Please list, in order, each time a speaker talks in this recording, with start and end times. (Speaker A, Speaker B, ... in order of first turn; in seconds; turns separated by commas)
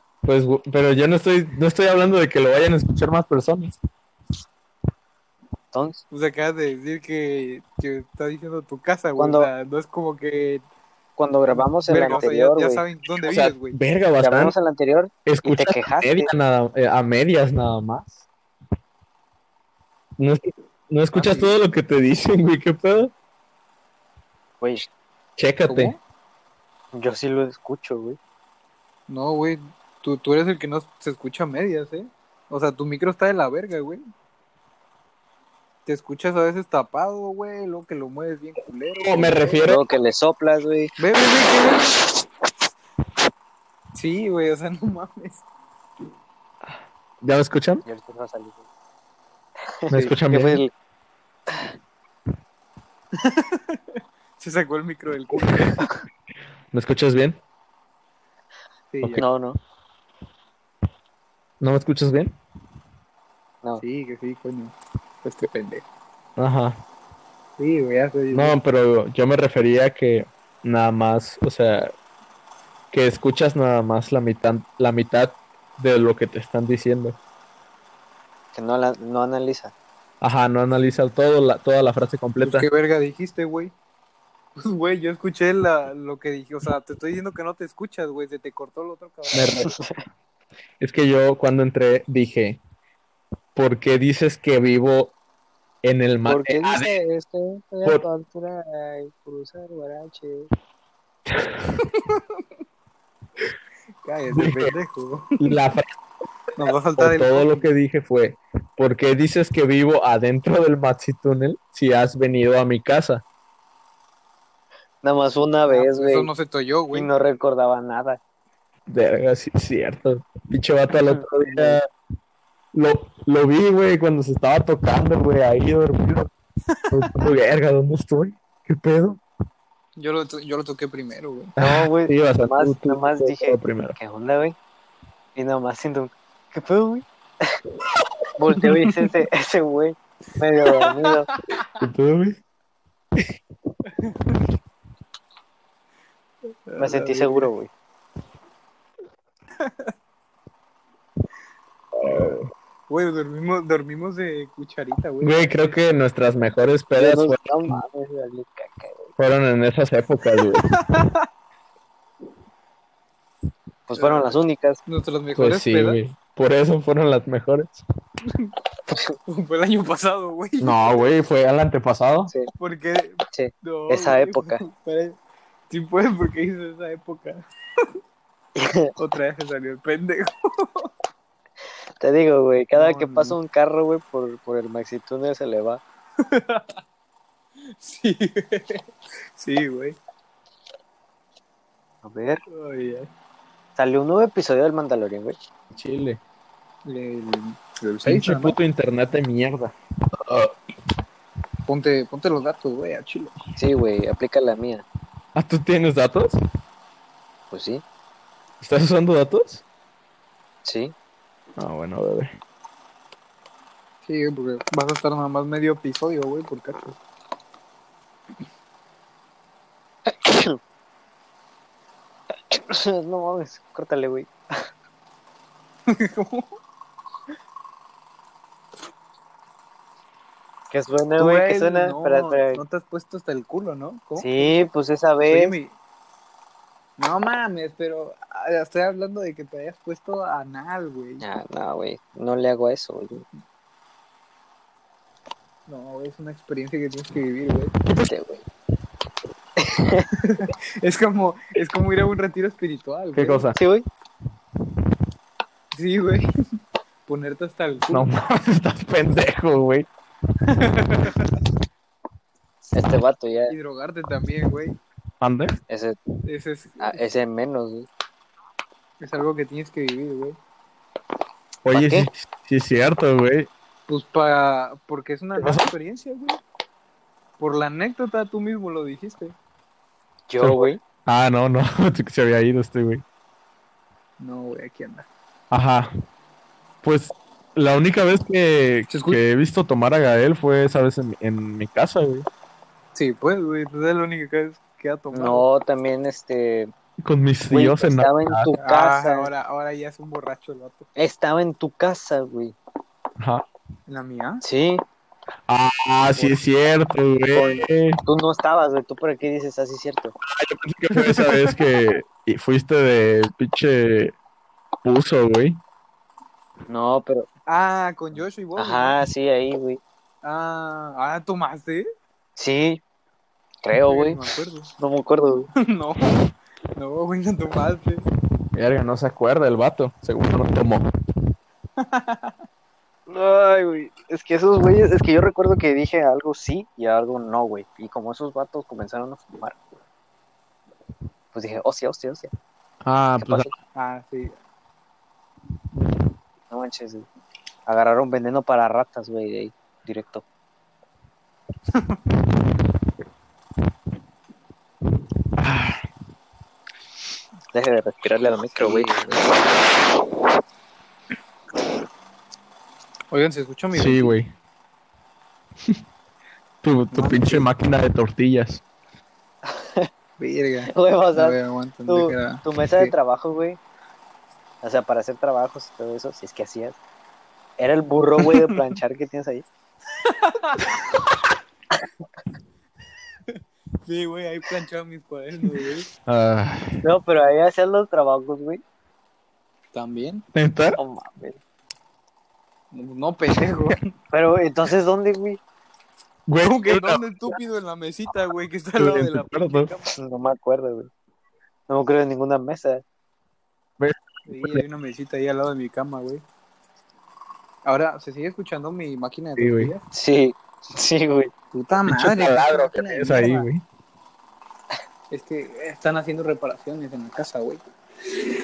Speaker A: 0.2-3.8, Speaker B: 5.7-6.0, Speaker C: 6.1-10.6, Speaker B: 9.2-9.5, Speaker B: 11.2-12.8, Speaker C: 11.5-13.8, Speaker A: 13.3-14.5, Speaker B: 14.2-16.3, Speaker A: 15.3-18.2, Speaker A: 20.2-23.1, Speaker C: 21.1-21.5, Speaker B: 24.6-24.9, Speaker A: 25.4-25.9, Speaker B: 26.9-28.2, Speaker C: 29.1-34.0, Speaker C: 35.9-39.7, Speaker A: 39.0-39.8, Speaker B: 39.6-40.9, Speaker C: 41.0-42.0, Speaker C: 43.9-45.4, Speaker A: 47.2-47.8, Speaker B: 47.9-48.6, Speaker B: 49.8-50.7, Speaker A: 49.9-50.6, Speaker C: 53.2-55.9, Speaker A: 56.7-57.4, Speaker C: 58.9-59.2, Speaker B: 59.2-59.6, Speaker A: 61.6-62.4, Speaker C: 63.8-65.8, Speaker A: 66.4-66.8, Speaker C: 67.6-68.6, Speaker A: 68.3-71.9, Speaker A: 72.9-77.2, Speaker B: 78.5-79.7, Speaker A: 80.2-82.7, Speaker C: 82.4-83.7, Speaker C: 84.6-89.7, Speaker A: 89.3-89.7, Speaker B: 89.6-90.0, Speaker A: 90.8-92.6, Speaker A: 93.5-95.2, Speaker A: 95.8-96.9, Speaker B: 96.3-100.5, Speaker C: 101.8-102.2, Speaker C: 104.0-105.5, Speaker A: 104.3-104.7, Speaker A: 105.4-106.0, Speaker C: 106.6-107.7, Speaker A: 107.0-113.2, Speaker B: 115.0-116.3, Speaker C: 115.7-117.1, Speaker B: 116.9-118.2, Speaker A: 118.9-121.9, Speaker B: 121.0-121.8, Speaker A: 122.7-126.3, Speaker C: 126.7-127.2, Speaker A: 126.9-129.2, Speaker C: 130.0-131.6, Speaker A: 131.6-134.0, Speaker B: 131.6-134.6, Speaker B: 135.3-137.5, Speaker B: 138.4-141.3, Speaker C: 140.7-141.6, Speaker A: 141.8-142.4, Speaker C: 144.0-144.4, Speaker C: 146.7-147.5, Speaker B: 146.8-147.7, Speaker C: 149.6-149.9, Speaker A: 152.0-152.5, Speaker C: 152.0-152.3, Speaker C: 152.9-155.5, Speaker A: 155.2-157.8, Speaker B: 156.9-159.1, Speaker A: 159.2-160.7, Speaker C: 160.6-161.3, Speaker B: 163.9-164.8, Speaker C: 164.0-166.0, Speaker A: 165.4-167.8, Speaker C: 168.3-168.5, Speaker B: 168.9-169.2, Speaker C: 169.3-171.0, Speaker A: 170.6-172.3, Speaker C: 172.6-175.2, Speaker B: 173.3-174.6, Speaker C: 175.7-177.4, Speaker B: 178.6-178.9, Speaker C: 179.0-180.9, Speaker B: 182.0-185.8, Speaker C: 182.8-183.4, Speaker C: 186.2-186.8, Speaker C: 187.7-188.8, Speaker C: 189.4-190.0, Speaker B: 192.0-192.4, Speaker C: 192.5-193.1, Speaker B: 193.8-195.4, Speaker A: 195.7-196.2, Speaker C: 196.9-198.6, Speaker A: 198.1-200.6, Speaker C: 201.7-203.3, Speaker B: 203.6-204.8, Speaker A: 205.3-206.4, Speaker B: 207.5-207.8, Speaker A: 208.6-209.6, Speaker B: 210.7-210.9, Speaker A: 211.6-212.3, Speaker C: 214.1-217.0, Speaker B: 220.1-220.6, Speaker B: 222.5-224.3, Speaker C: 225.9-226.6, Speaker B: 230.7-232.6, Speaker C: 231.2-234.7, Speaker B: 234.2-235.6, Speaker C: 235.2-235.8, Speaker C: 237.0-241.2, Speaker B: 241.2-243.2, Speaker C: 245.7-247.8, Speaker B: 248.1-248.4, Speaker B: 249.6-250.1, Speaker C: 250.2-253.4, Speaker A: 253.2-253.6, Speaker B: 253.5-253.9, Speaker C: 255.7-256.3, Speaker C: 257.1-258.1, Speaker A: 257.9-259.9, Speaker C: 260.5-261.4, Speaker B: 262.7-263.6, Speaker C: 263.5-264.8, Speaker A: 265.2-265.5, Speaker B: 265.7-266.0, Speaker C: 266.3-267.0, Speaker B: 266.8-267.9, Speaker C: 269.0-270.4, Speaker A: 271.6-273.5, Speaker B: 271.7-272.1, Speaker C: 273.9-276.4, Speaker A: 275.4-275.7, Speaker C: 277.4-279.4, Speaker B: 280.3-280.8, Speaker A: 280.4-283.0, Speaker C: 284.2-285.1, Speaker A: 285.5-285.9, Speaker A: 286.8-292.3, Speaker C: 288.9-289.2, Speaker C: 292.9-295.4, Speaker B: 295.1-296.7, Speaker A: 297.0-298.5, Speaker B: 297.5-299.3, Speaker C: 298.6-300.9, Speaker B: 301.0-302.6, Speaker A: 303.2-303.4, Speaker C: 303.9-304.4, Speaker B: 304.4-304.8, Speaker A: 305.5-308.0, Speaker B: 307.3-310.1, Speaker A: 310.3-314.1, Speaker C: 310.9-311.6, Speaker A: 314.8-315.6, Speaker B: 316.7-317.3, Speaker C: 317.5-319.0, Speaker B: 318.6-319.8, Speaker C: 320.2-321.9, Speaker B: 322.4-322.8, Speaker B: 323.6-324.2, Speaker C: 323.7-324.7, Speaker B: 324.8-325.5, Speaker C: 325.6-326.2, Speaker C: 326.8-328.1, Speaker A: 328.5-330.9, Speaker C: 331.8-332.3, Speaker B: 333.1-339.6, Speaker B: 341.3-342.3, Speaker A: 342.8-343.5, Speaker B: 343.2-343.6, Speaker C: 343.8-344.4, Speaker B: 346.5-347.1, Speaker B: 347.7-350.2, Speaker C: 351.7-352.0, Speaker A: 355.4-355.9, Speaker B: 357.5-359.0, Speaker C: 358.6-359.4, Speaker C: 363.1-364.1, Speaker A: 363.7-364.3, Speaker A: 366.6-368.6, Speaker C: 366.9-367.5, Speaker B: 369.5-369.9, Speaker C: 370.2-372.9, Speaker B: 370.7-371.4, Speaker B: 371.9-373.6, Speaker B: 374.6-376.8, Speaker B: 377.6-379.5, Speaker C: 380.0-381.0, Speaker C: 383.3-385.9, Speaker A: 386.1-386.8, Speaker B: 386.8-388.6, Speaker C: 389.7-390.2, Speaker A: 390.3-390.8, Speaker B: 390.8-391.4, Speaker C: 392.7-393.9, Speaker B: 394.1-395.4, Speaker A: 396.3-397.0, Speaker C: 396.4-399.9, Speaker A: 398.8-399.7, Speaker B: 400.0-400.9, Speaker B: 401.7-402.8, Speaker A: 403.8-404.6, Speaker C: 404.3-406.2, Speaker C: 407.6-409.9, Speaker A: 409.4-409.7, Speaker B: 409.9-411.3, Speaker C: 411.5-413.5, Speaker A: 411.9-413.6, Speaker C: 415.1-417.6